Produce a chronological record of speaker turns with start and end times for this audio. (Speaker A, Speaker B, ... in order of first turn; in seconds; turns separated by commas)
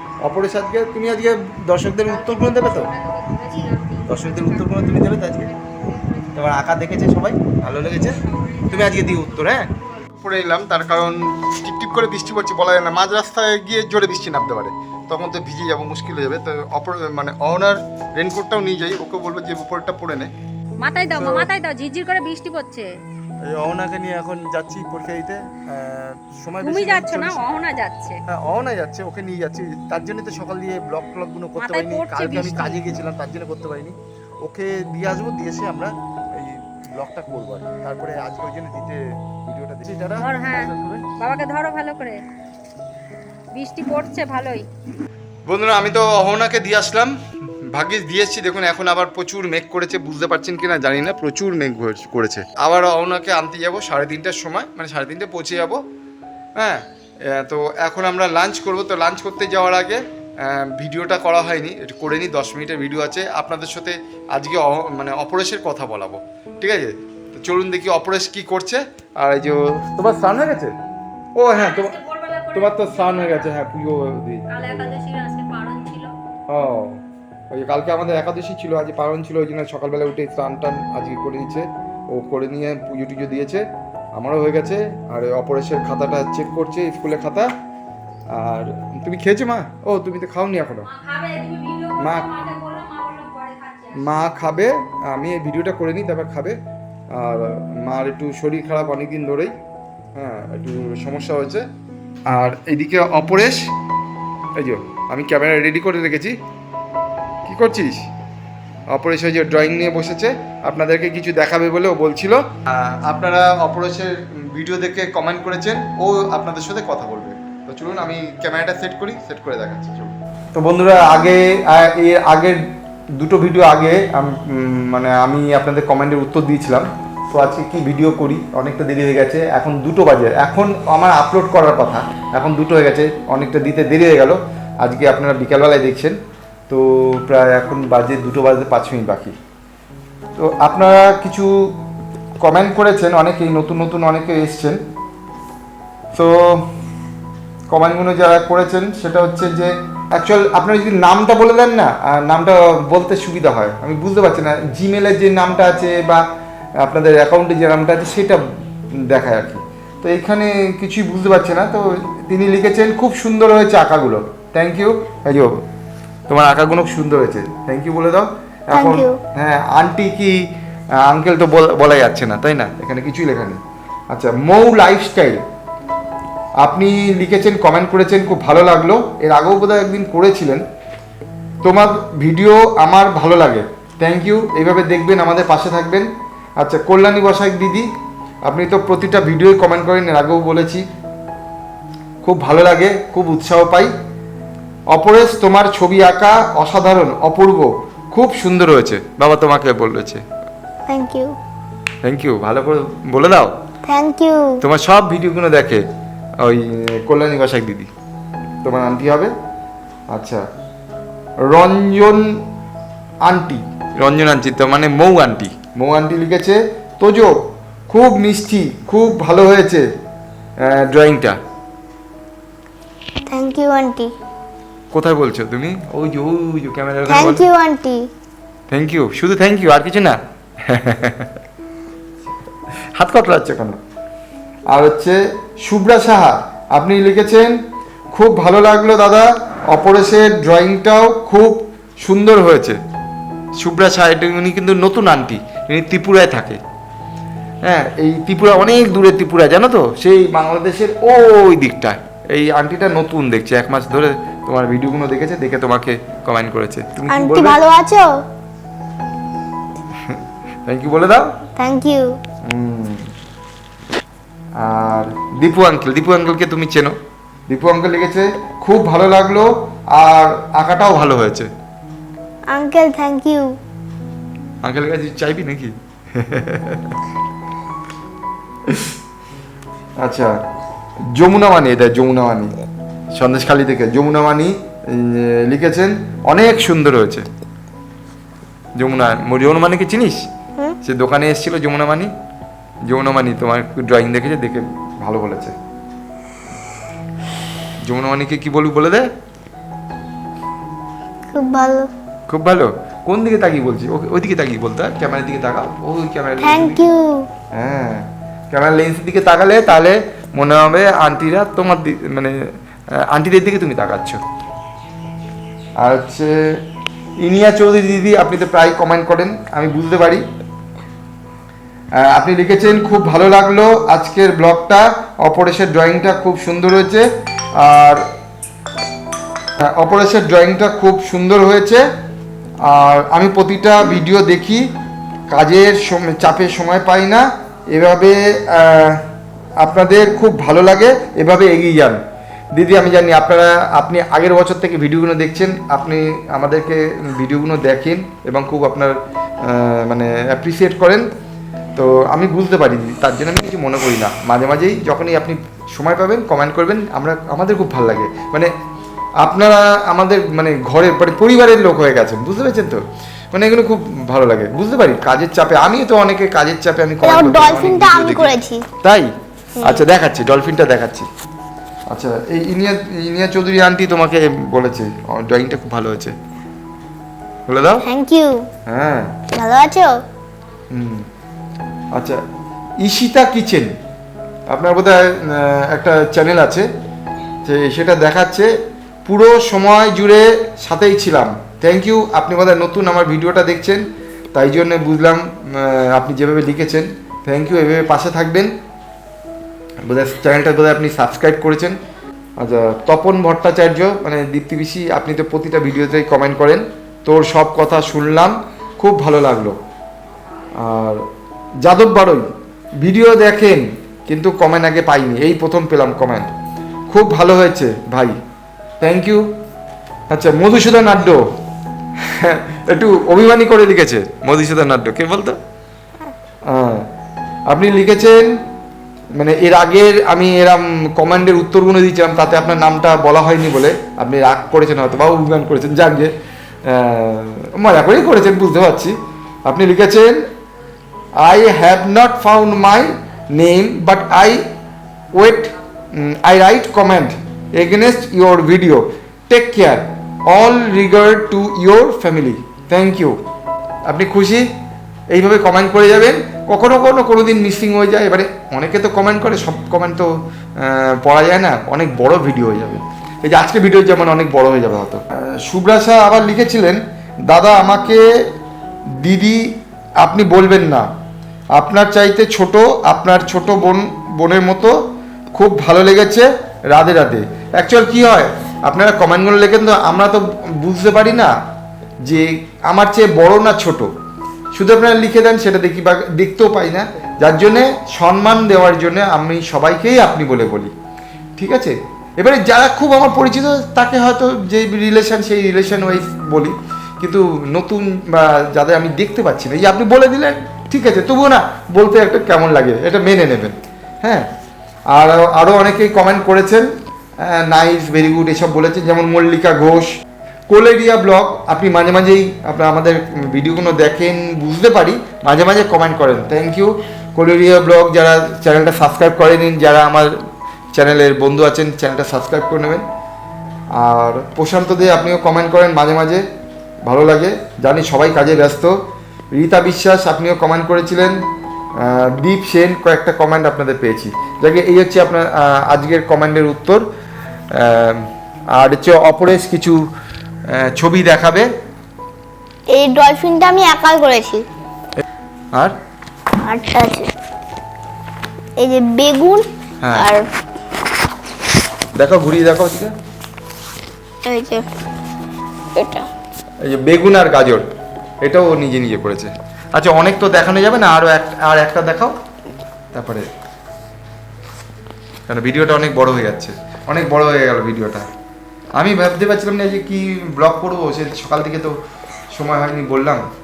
Speaker A: 0.2-2.9, Speaker B: 2.0-6.5, Speaker A: 4.1-5.5, Speaker A: 6.3-8.2, Speaker B: 7.9-9.6, Speaker A: 8.7-9.7, Speaker A: 10.2-20.3, Speaker B: 20.8-22.9, Speaker A: 21.1-21.5, Speaker A: 23.4-27.5, Speaker B: 26.6-28.2, Speaker A: 28.3-41.1, Speaker B: 31.6-32.8, Speaker B: 40.2-42.2, Speaker B: 43.5-44.7, Speaker A: 45.5-47.1, Speaker A: 47.7-55.8, Speaker A: 56.6-70.7, Speaker A: 71.4-71.9, Speaker B: 71.5-73.6, Speaker A: 72.5-75.0, Speaker B: 74.5-76.1, Speaker A: 76.5-83.6, Speaker A: 84.2-87.5, Speaker A: 88.3-90.9, Speaker B: 90.9-94.2, Speaker A: 92.0-92.3, Speaker A: 94.0-96.6, Speaker A: 97.1-99.5, Speaker A: 100.2-101.7, Speaker A: 102.3-103.7, Speaker A: 104.6-106.3, Speaker A: 107.5-108.0, Speaker A: 108.9-122.6, Speaker A: 123.2-136.2, Speaker A: 136.7-139.3, Speaker A: 140.4-141.5, Speaker A: 142.4-144.8, Speaker A: 146.1-146.7, Speaker A: 147.7-156.2, Speaker A: 156.8-158.4, Speaker A: 159.0-165.6, Speaker A: 166.3-170.4, Speaker C: 168.7-169.2, Speaker A: 171.0-173.6, Speaker A: 174.1-175.4, Speaker A: 176.6-180.6, Speaker A: 181.6-186.1, Speaker A: 186.6-187.9, Speaker A: 188.5-190.8, Speaker A: 192.2-193.9, Speaker A: 194.9-200.2, Speaker C: 200.9-201.3, Speaker A: 202.0-203.5, Speaker C: 203.8-204.6, Speaker A: 204.6-205.8, Speaker A: 206.4-207.9, Speaker A: 208.6-209.3, Speaker A: 210.1-210.4, Speaker A: 211.4-212.4, Speaker A: 213.2-217.3, Speaker A: 217.9-219.9, Speaker A: 220.6-221.4, Speaker C: 223.3-224.1, Speaker A: 224.9-227.4, Speaker C: 227.1-228.1, Speaker A: 228.7-231.3, Speaker A: 232.9-233.8, Speaker A: 234.7-237.6, Speaker A: 238.1-242.8, Speaker A: 243.6-246.6, Speaker A: 247.7-257.6, Speaker C: 257.1-258.2, Speaker A: 260.0-261.3, Speaker C: 261.6-262.2, Speaker A: 262.4-263.1, Speaker A: 264.6-266.9, Speaker A: 267.5-271.5, Speaker C: 272.5-273.6, Speaker A: 274.6-276.9, Speaker A: 278.7-278.9, Speaker A: 280.0-280.3, Speaker A: 281.1-282.5, Speaker A: 283.1-287.2, Speaker A: 288.8-290.2, Speaker A: 290.8-292.1, Speaker A: 292.9-295.5, Speaker A: 297.8-299.1, Speaker C: 301.3-301.9, Speaker A: 302.3-306.8, Speaker C: 306.4-307.3, Speaker A: 307.5-312.4, Speaker A: 313.0-314.2, Speaker A: 315.8-316.6, Speaker A: 317.2-320.2, Speaker A: 322.0-328.0, Speaker A: 329.6-331.8, Speaker A: 332.6-334.7, Speaker A: 335.3-339.0, Speaker A: 339.6-342.0, Speaker A: 342.5-351.1, Speaker A: 351.8-358.5, Speaker A: 359.2-362.8, Speaker A: 363.3-369.1, Speaker C: 367.0-368.6, Speaker C: 369.6-369.8, Speaker A: 369.6-371.1, Speaker A: 371.9-376.1, Speaker A: 377.5-377.8, Speaker C: 377.8-378.5, Speaker A: 378.7-379.1, Speaker C: 379.3-380.0, Speaker A: 380.7-381.1, Speaker A: 381.9-382.2, Speaker A: 382.8-383.7, Speaker A: 384.5-386.7, Speaker A: 387.4-388.5, Speaker A: 389.1-398.5, Speaker A: 399.9-401.8, Speaker A: 402.4-409.6, Speaker A: 410.6-411.0, Speaker A: 411.6-412.3, Speaker A: 412.8-416.3, Speaker A: 416.9-418.1, Speaker A: 418.8-419.2, Speaker A: 420.1-421.2, Speaker A: 422.0-425.4, Speaker A: 426.5-426.9, Speaker A: 427.5-428.4, Speaker A: 429.2-436.1, Speaker A: 436.6-438.9, Speaker A: 439.5-440.2, Speaker A: 441.2-444.4, Speaker A: 445.1-453.2, Speaker A: 453.9-454.5, Speaker A: 455.1-468.0, Speaker A: 469.0-469.5, Speaker A: 470.0-470.9, Speaker A: 471.6-474.8, Speaker A: 475.3-481.3, Speaker A: 482.0-483.9, Speaker A: 484.5-490.7, Speaker A: 491.4-504.3, Speaker A: 504.9-506.7, Speaker A: 507.2-509.9, Speaker A: 510.5-520.1, Speaker A: 520.7-522.8, Speaker A: 523.8-526.2, Speaker A: 526.8-528.8, Speaker A: 529.3-531.2, Speaker A: 531.8-536.8, Speaker A: 537.5-539.8, Speaker A: 540.5-541.5, Speaker C: 542.7-544.4, Speaker C: 546.4-547.1, Speaker C: 548.6-550.2, Speaker A: 549.8-550.1, Speaker A: 552.0-552.9, Speaker C: 554.2-554.6, Speaker C: 555.8-556.1, Speaker A: 556.6-557.6, Speaker A: 558.2-562.1, Speaker A: 562.9-563.3, Speaker A: 565.3-568.0, Speaker A: 568.8-571.8, Speaker A: 572.3-573.2